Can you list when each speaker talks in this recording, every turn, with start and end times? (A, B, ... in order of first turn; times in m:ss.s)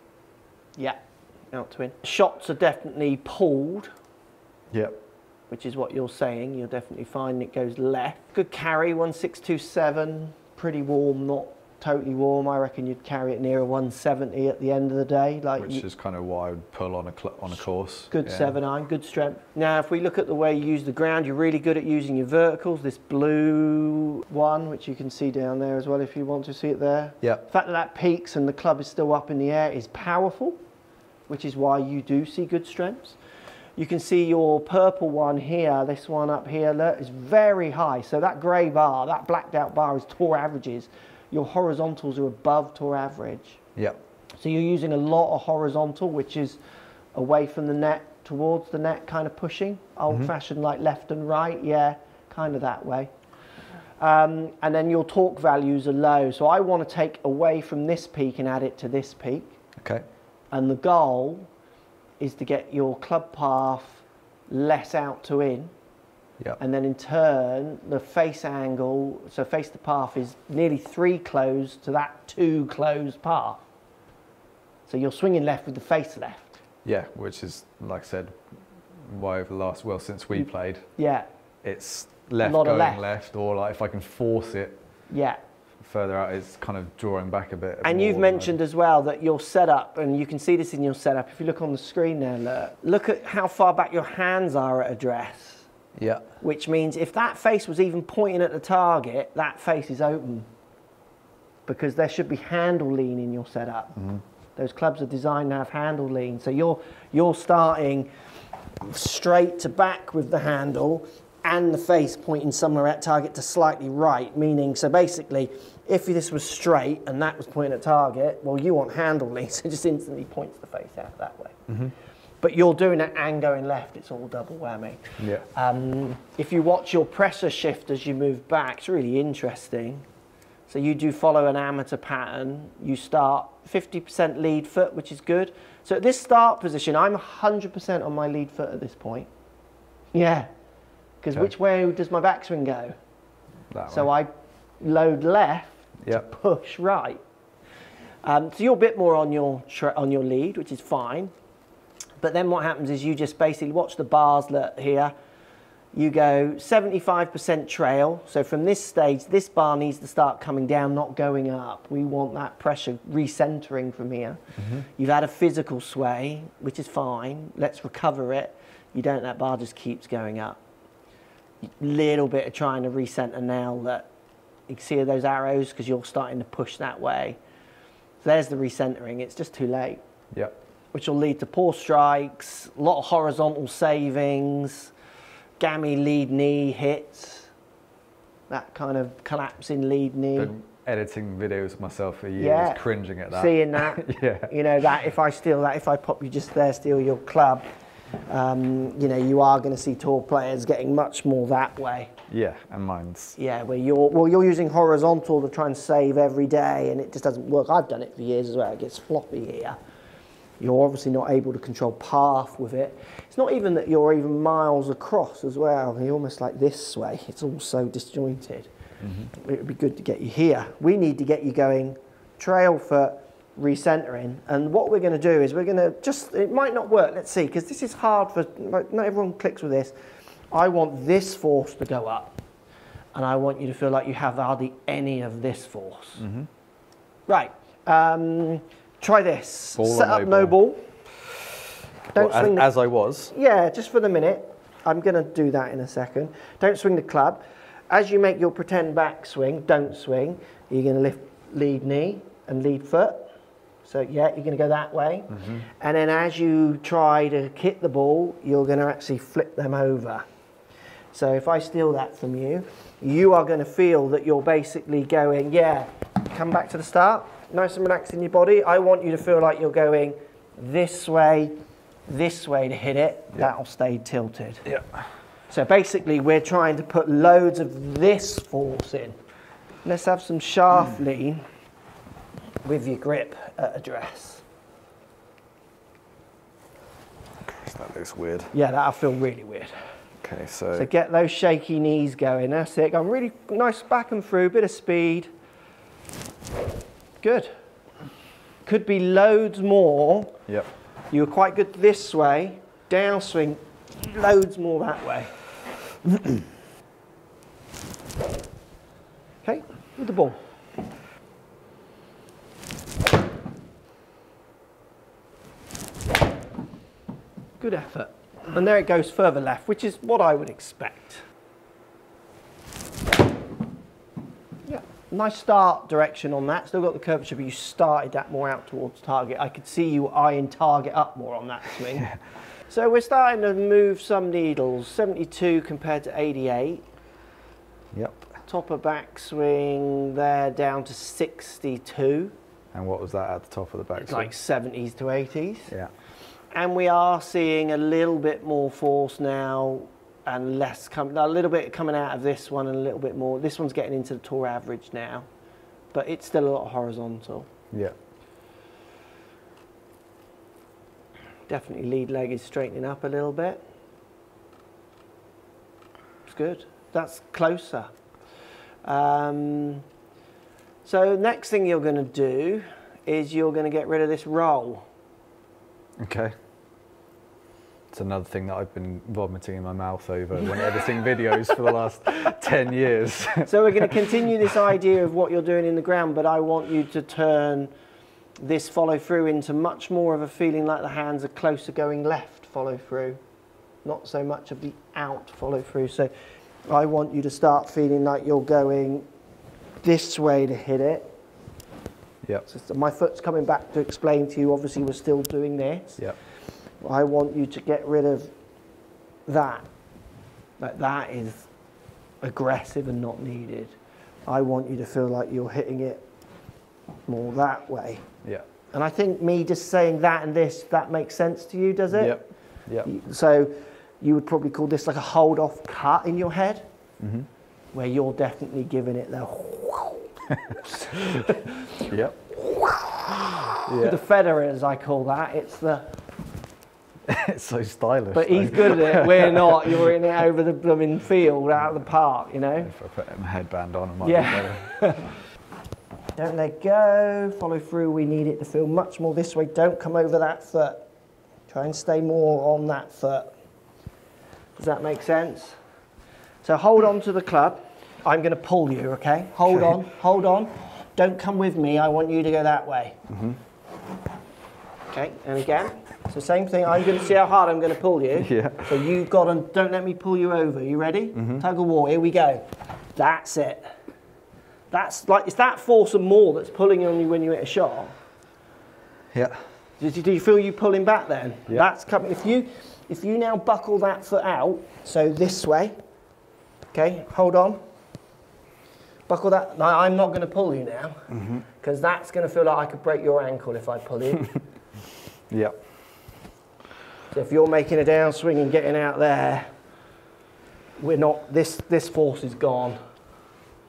0:01.5-0:03.9 A
0:04.7-0:05.0 B
0:05.5-0:15.8 A
0:15.6-0:18.6 B
0:18.1-0:30.6 A
0:31.3-0:33.2 A
0:33.8-0:43.6 A
0:44.4-0:46.6 A
0:47.1-0:53.1 A
0:54.0-0:59.6 A
0:59.8-1:00.0 B
1:00.5-1:01.5 A
1:02.2-1:05.7 A
1:06.6-1:13.6 A
1:14.8-1:16.6 A
1:16.8-1:18.4 B
1:19.1-1:20.9 B
1:20.3-1:21.3 A
1:21.6-1:24.8 B
1:22.4-1:23.0 A
1:25.1-1:25.4 A
1:25.8-1:28.5 B
1:27.8-1:35.7 A
1:36.0-1:36.3 B
1:36.4-1:40.5 A
1:41.6-1:44.0 A
1:44.0-1:44.2 B
1:44.6-1:48.1 A
1:48.8-2:01.6 A
2:01.7-2:01.9 B
2:02.4-2:10.0 A
2:05.2-2:05.4 B
2:10.7-2:19.3 A
2:20.1-2:20.5 A
2:21.2-2:22.9 A
2:23.7-2:24.1 B
2:23.9-2:27.2 A
2:28.2-2:31.3 A
2:32.2-2:35.1 A
2:35.9-2:50.6 A
2:44.6-2:44.8 B
2:51.6-2:54.1 A
2:54.7-2:57.4 A
2:58.2-3:00.0 A
3:00.9-3:04.9 A
3:05.6-3:07.5 A
3:08.5-3:10.5 A
3:10.4-3:14.5 B
3:12.4-3:17.6 A
3:18.3-3:22.1 A
3:22.3-3:23.4 B
3:23.4-3:29.8 A
3:30.6-3:38.7 A
3:39.0-3:39.3 B
3:39.3-3:49.9 A
3:50.5-3:52.4 A
3:53.1-3:56.2 A
3:56.2-3:56.5 B
3:57.3-4:00.9 A
3:59.8-4:00.6 B
4:02.1-4:02.7 A
4:02.1-4:03.3 B
4:03.3-4:13.3 A
4:13.8-4:20.2 A
4:21.1-4:31.5 A
4:32.1-4:34.6 A
4:35.5-4:39.2 A
4:39.8-4:41.4 A
4:42.6-4:44.4 A
4:47.4-4:48.5 B
4:48.5-4:49.7 A
4:50.2-4:50.9 B
4:50.7-4:55.3 A
4:57.2-4:57.5 A
4:58.6-5:00.4 A
5:01.1-5:05.3 A
5:06.0-5:06.4 A
5:09.4-5:10.4 A
5:17.6-5:21.2 A
5:24.6-5:32.1 A
5:32.7-5:36.8 A
5:37.9-5:38.3 B
5:38.4-5:42.3 A
5:42.7-5:44.3 B
5:44.0-5:45.7 A
5:46.5-5:55.3 A
5:55.9-5:57.5 A
6:01.5-6:03.6 A
6:06.2-6:07.9 A
6:08.8-6:09.8 A
6:10.8-6:14.9 A
6:16.0-6:16.3 B
6:17.9-6:24.1 B
6:23.4-6:27.7 A
6:28.4-6:33.2 A
6:33.8-6:36.1 A
6:36.7-6:39.1 A
6:39.8-6:41.1 A
6:42.5-6:46.0 A
6:46.8-6:48.3 A
6:49.3-6:49.6 A
6:50.6-6:51.5 A
6:52.2-6:56.0 A
6:57.1-6:58.0 A
6:58.7-7:02.2 A
7:01.9-7:02.9 B
7:02.8-7:06.6 A
7:07.0-7:07.3 B
7:07.7-7:15.9 A
7:11.9-7:12.3 B
7:13.6-7:14.0 B
7:17.1-7:19.9 B
7:18.1-7:22.7 A
7:22.6-7:24.8 B
7:24.0-7:25.1 A
7:26.2-7:30.8 A
7:31.5-7:33.3 A
7:34.6-7:35.6 A
7:36.4-7:43.0 A
7:43.1-7:43.4 B
7:44.9-7:53.7 A
7:48.2-7:48.8 B
7:51.1-7:51.4 B
7:54.7-7:58.0 A
7:59.1-7:59.4 B
7:59.8-8:05.8 A
8:06.7-8:07.6 A
8:09.1-8:11.0 A
8:11.1-8:11.4 B
8:11.6-8:14.4 A
8:15.3-8:15.6 B
8:17.1-8:19.5 A
8:20.8-8:22.8 A